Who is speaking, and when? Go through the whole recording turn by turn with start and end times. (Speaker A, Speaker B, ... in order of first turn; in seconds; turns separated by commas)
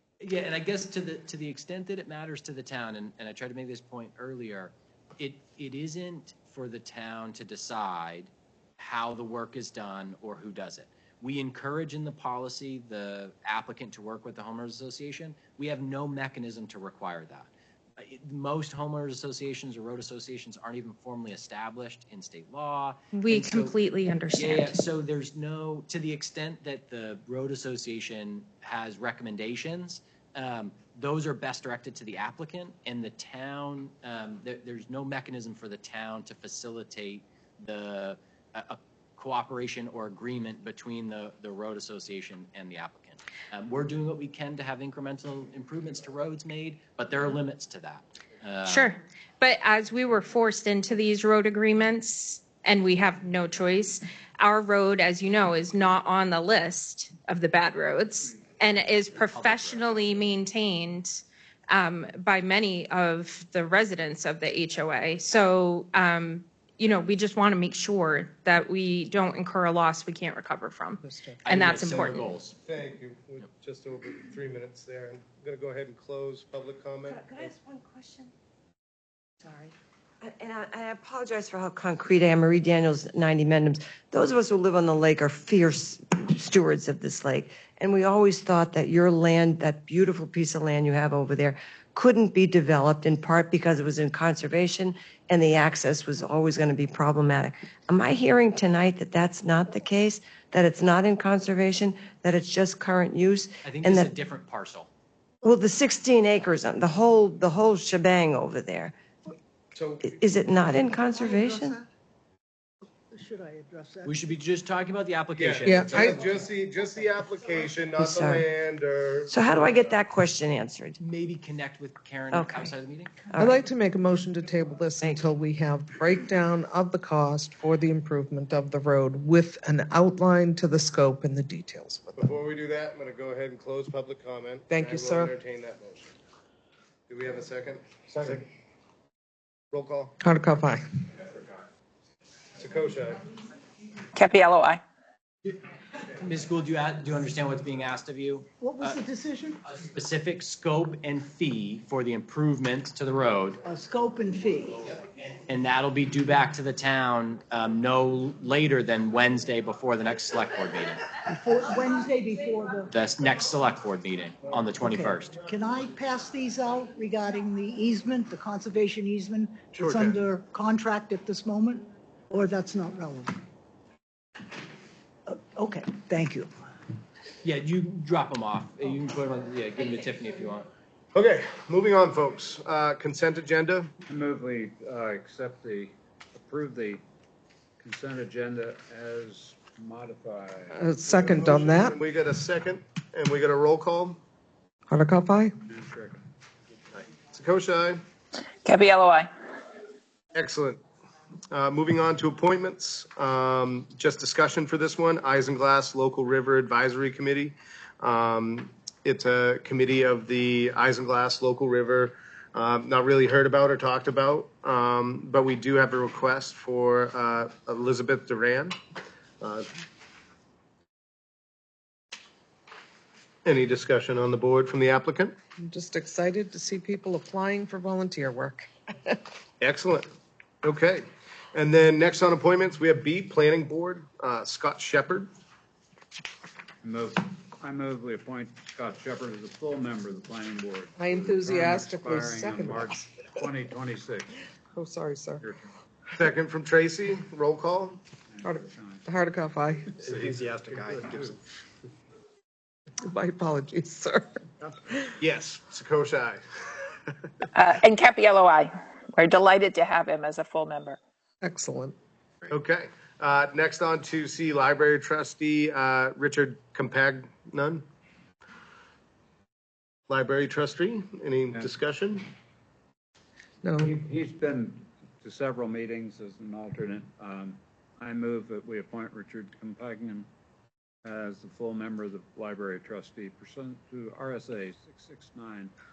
Speaker A: 0.2-23.7, Speaker B: 23.1-24.8, Speaker A: 24.3-48.9, Speaker B: 48.6-72.3, Speaker A: 59.3-60.3, Speaker C: 71.0-71.6, Speaker A: 71.4-72.5, Speaker D: 71.8-77.4, Speaker E: 77.0-78.3, Speaker E: 79.4-104.1, Speaker A: 103.6-104.9, Speaker E: 105.4-109.0, Speaker D: 109.7-110.1, Speaker E: 110.0-111.8, Speaker F: 113.1-114.2, Speaker A: 114.0-116.4, Speaker D: 115.3-119.3, Speaker C: 115.6-116.2, Speaker E: 118.0-118.4, Speaker E: 119.3-121.0, Speaker A: 121.0-123.1, Speaker E: 122.3-122.7, Speaker E: 123.3-123.7, Speaker C: 123.4-132.2, Speaker E: 125.0-125.3, Speaker D: 132.2-136.1, Speaker C: 134.7-135.3, Speaker D: 137.1-138.4, Speaker D: 139.7-140.1, Speaker C: 140.2-140.8, Speaker D: 142.6-143.2, Speaker G: 144.2-144.8, Speaker A: 146.2-149.0, Speaker F: 148.6-149.6, Speaker A: 149.7-153.6, Speaker F: 153.6-154.9, Speaker A: 155.5-161.0, Speaker F: 161.3-162.9, Speaker A: 162.9-165.4, Speaker F: 165.5-173.3, Speaker D: 169.7-170.2, Speaker F: 175.2-176.7, Speaker A: 177.4-180.7, Speaker D: 181.1-183.9, Speaker H: 184.1-187.0, Speaker H: 187.8-190.8, Speaker C: 190.7-192.0, Speaker D: 191.1-194.2, Speaker C: 194.9-195.5, Speaker H: 195.7-196.2, Speaker D: 197.3-198.0, Speaker G: 198.6-199.3, Speaker D: 200.3-200.8, Speaker D: 201.5-218.8, Speaker D: 219.4-219.7, Speaker D: 223.4-225.3, Speaker C: 225.6-229.2, Speaker D: 229.6-230.1, Speaker D: 230.6-235.3, Speaker H: 236.8-244.4, Speaker C: 241.0-243.1, Speaker C: 244.7-245.4, Speaker H: 245.4-245.7, Speaker D: 246.2-248.0, Speaker H: 248.3-249.1, Speaker C: 248.4-250.1, Speaker A: 250.0-251.3, Speaker H: 250.1-251.3, Speaker C: 253.0-255.1, Speaker D: 255.2-256.4, Speaker G: 257.5-261.0, Speaker C: 261.4-261.9, Speaker D: 262.5-267.8, Speaker D: 270.1-272.3, Speaker C: 273.6-273.9, Speaker H: 273.8-280.3, Speaker H: 281.0-285.7